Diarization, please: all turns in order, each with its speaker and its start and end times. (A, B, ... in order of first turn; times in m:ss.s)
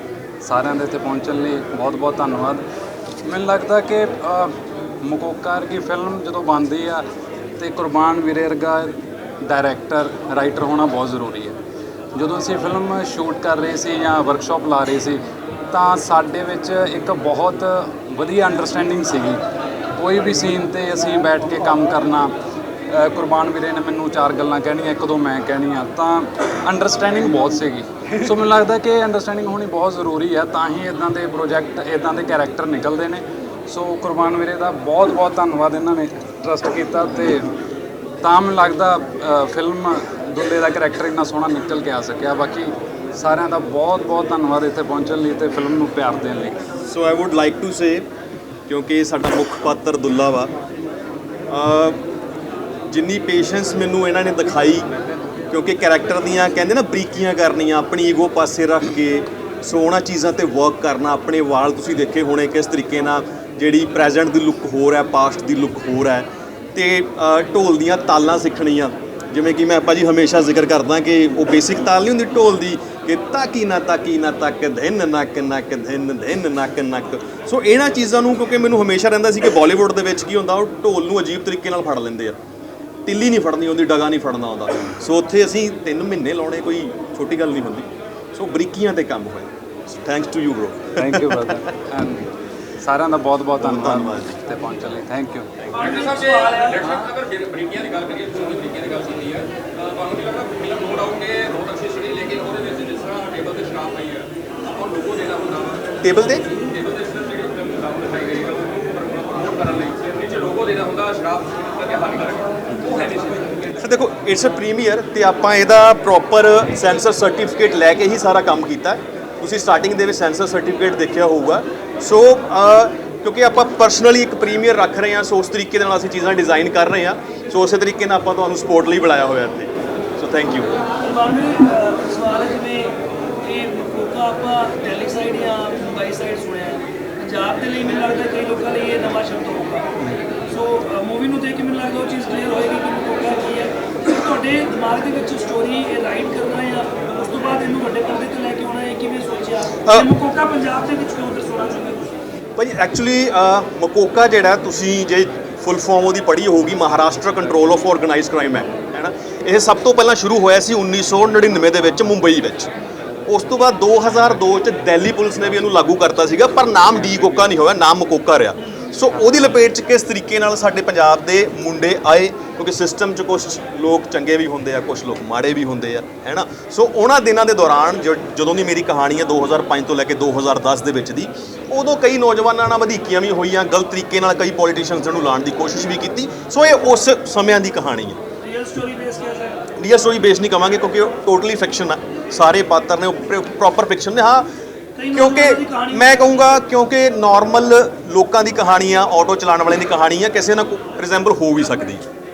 0:00.4-0:02.6 A
0:03.2-0:07.0 A
0:07.6-0:11.6 A
0:12.1-0:19.4 A
0:19.9-0:22.3 A
0:22.9-0:37.5 A
0:38.2-0:46.6 A
0:46.9-0:48.1 B
0:48.7-0:50.5 B
0:51.5-0:52.0 B
0:52.9-0:54.9 B
0:55.5-1:22.4 B
1:23.1-1:31.6 B
1:31.0-1:35.6 A
1:33.6-1:34.4 B
1:35.7-1:37.0 C
1:35.7-1:53.7 D
1:46.0-1:46.5 B
1:53.8-2:10.8 B
2:11.0-2:19.9 C
2:20.5-2:32.1 C
2:32.6-2:42.7 B
2:43.3-3:08.2 B
3:08.4-3:09.6 C
3:09.8-3:14.5 B
3:15.0-3:16.1 C
3:15.1-3:22.0 B